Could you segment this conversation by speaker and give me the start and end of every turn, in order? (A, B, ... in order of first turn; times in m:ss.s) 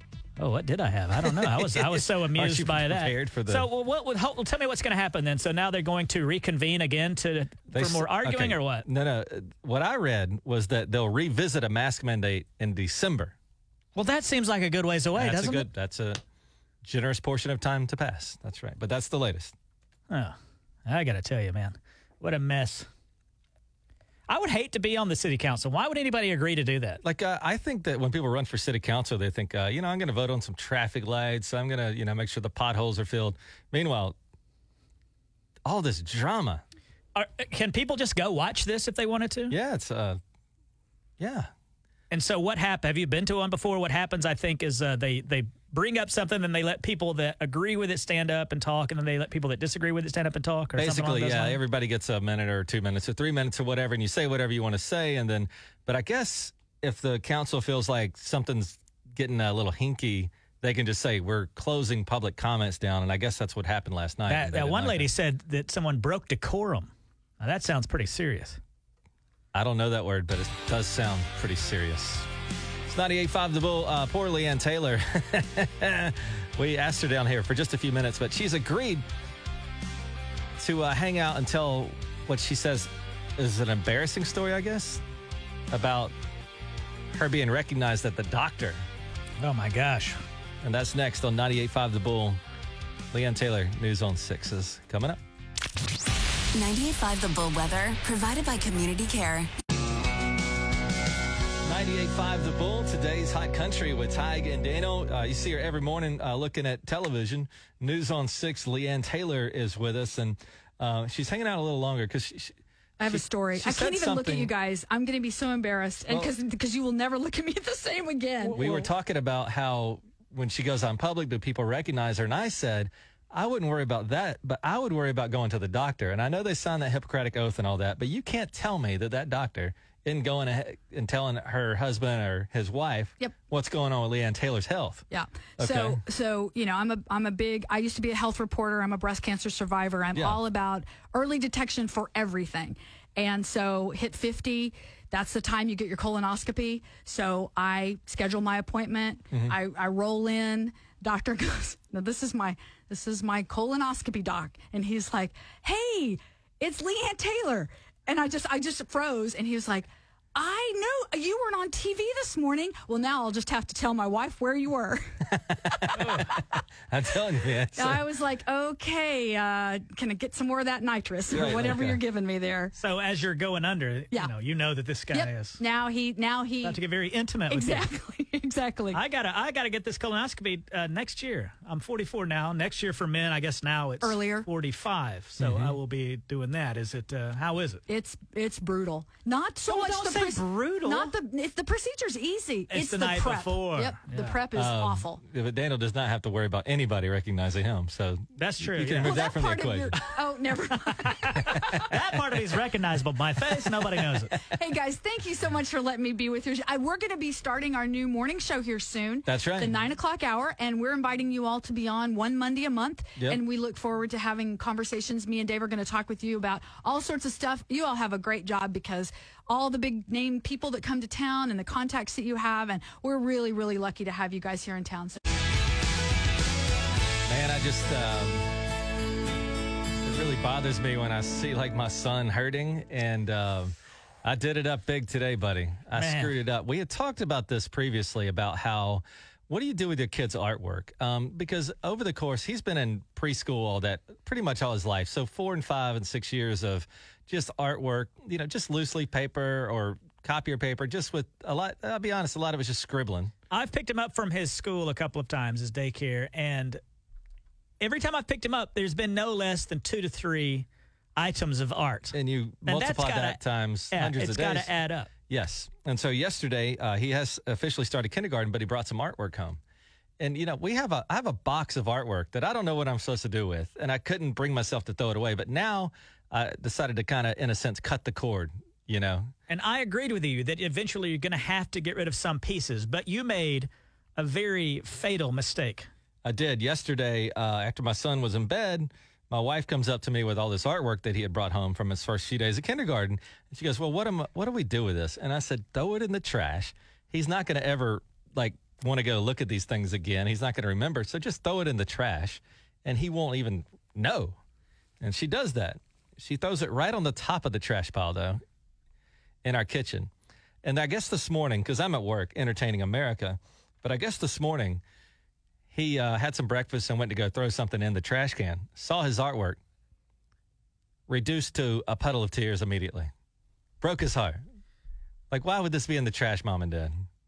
0:00.4-0:08.8 A
0:01.2-0:03.7 B
0:07.7-0:13.3 B
0:14.0-0:15.7 A
0:15.1-0:16.2 B
0:16.8-0:19.5 B
0:20.1-0:22.9 A
0:24.3-0:27.0 A
0:27.0-0:34.2 B
0:35.6-0:36.6 B
0:37.1-0:39.6 A
0:39.5-0:40.2 B
0:41.2-0:41.5 B
0:42.1-0:51.6 A
0:50.8-1:05.1 B
1:04.3-1:06.9 A
1:07.4-1:08.6 A
1:09.5-1:12.3 B
1:12.8-1:19.0 B
1:20.6-1:25.0 B
1:25.7-1:26.1 B
1:27.1-1:28.8 B
1:29.4-1:30.2 A
1:30.6-1:32.4 B
1:33.1-1:35.2 B
1:36.5-1:39.5 C
1:41.6-1:52.5 B
1:53.0-1:58.8 D
1:53.1-1:54.5 B
1:58.5-2:15.0 B
2:15.1-2:46.2 D
2:15.6-2:16.0 B
2:20.1-2:20.4 B
2:45.5-2:48.0 B
2:47.8-2:52.7 D
2:51.3-2:52.0 B
2:52.8-2:55.6 A
2:55.1-2:56.8 D
2:56.6-2:57.9 A
2:57.5-2:59.0 D
2:58.9-3:07.8 A
3:04.0-3:04.5 D
3:05.4-3:05.8 B
3:07.9-3:15.2 D
3:09.7-3:11.1 A
3:12.7-3:14.4 A
3:14.5-3:19.9 B
3:18.4-3:19.2 A
3:19.0-3:21.8 D
3:21.1-3:24.4 A
3:24.5-3:45.2 D
3:29.2-3:29.7 B
3:47.3-3:48.5 B
3:50.0-3:53.7 B
3:54.2-4:13.3 B
3:55.9-3:56.4 A
4:13.5-4:16.8 A
4:17.8-4:22.1 A
4:22.1-4:24.7 B
4:22.6-4:23.4 A
4:23.9-4:25.1 A
4:25.3-4:29.6 B
4:30.2-4:39.3 B
4:39.5-4:45.9 A
4:46.2-5:04.4 B
5:05.0-5:08.4 B
5:09.4-5:10.1 B
5:10.6-5:14.8 B
5:15.7-5:19.6 B
5:21.1-5:23.1 B
5:23.8-5:24.4 B
5:25.3-5:27.0 B